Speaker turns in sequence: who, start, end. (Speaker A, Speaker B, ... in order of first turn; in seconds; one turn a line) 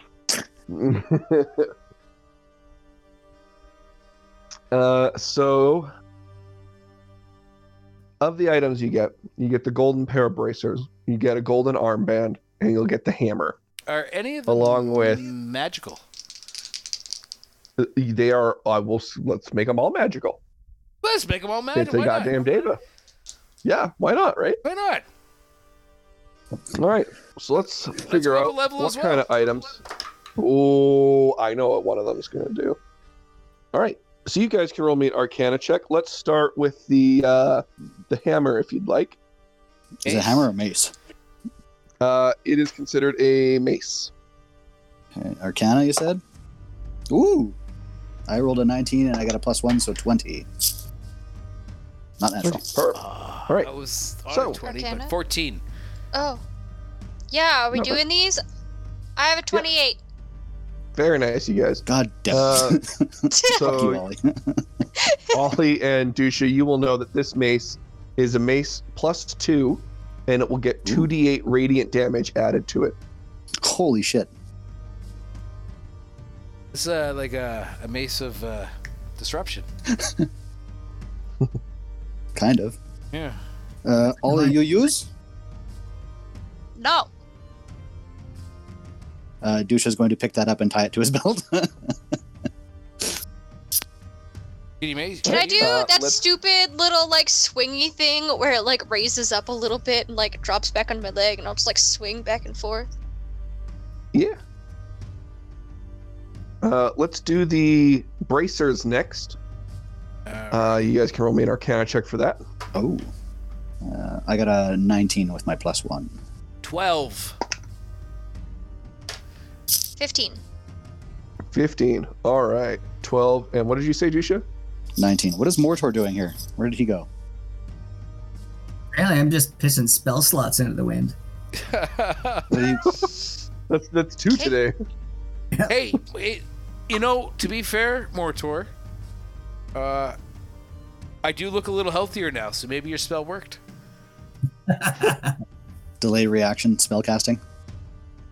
Speaker A: 0.7-1.7
Speaker A: 4.7-5.9
Speaker A: 8.2-13.6
Speaker B: 13.9-16.0
Speaker A: 14.5-15.3
Speaker A: 17.8-20.4
Speaker B: 21.0-22.4
Speaker A: 21.7-22.8
Speaker A: 23.6-24.6
Speaker B: 24.6-25.0
Speaker A: 26.7-29.8
Speaker B: 28.0-29.3
Speaker A: 30.4-32.8
Speaker A: 33.7-39.2
Speaker C: 40.0-40.9
Speaker B: 40.0-40.5
Speaker A: 42.0-44.1
Speaker C: 45.1-46.2
Speaker C: 47.1-47.5
Speaker C: 48.3-50.7
Speaker C: 52.2-52.6
Speaker A: 52.4-53.7
Speaker B: 52.9-55.6
Speaker A: 54.3-54.6
Speaker D: 54.6-55.1
Speaker D: 56.1-56.4
Speaker D: 57.3-58.4
Speaker D: 59.2-60.0
Speaker A: 60.9-62.8
Speaker C: 61.9-64.6
Speaker D: 63.3-63.9
Speaker A: 63.5-64.0
Speaker D: 65.0-65.3
Speaker A: 65.3-73.0
Speaker C: 73.6-74.3
Speaker B: 76.7-79.7
Speaker C: 79.9-80.3
Speaker C: 82.3-82.8
Speaker B: 83.1-83.4
Speaker C: 83.8-85.1
Speaker E: 84.2-84.5
Speaker D: 86.8-87.1
Speaker C: 89.4-91.9
Speaker B: 94.8-95.7
Speaker A: 95.2-96.2
Speaker D: 95.2-102.9
Speaker A: 104.1-104.4
Speaker A: 106.6-109.4
Speaker B: 110.3-110.8
Speaker A: 110.5-112.4
Speaker C: 112.7-113.1
Speaker C: 113.8-116.1
Speaker B: 116.6-117.4
Speaker D: 120.0-120.4
Speaker A: 121.5-124.4
Speaker C: 125.0-127.1
Speaker E: 128.9-131.2
Speaker B: 131.5-132.8
Speaker C: 132.5-132.9
Speaker A: 132.8-133.1
Speaker A: 133.7-134.7
Speaker B: 135.7-138.7
Speaker B: 139.7-140.2
Speaker B: 141.2-143.6
Speaker E: 144.7-145.3
Speaker C: 146.0-147.4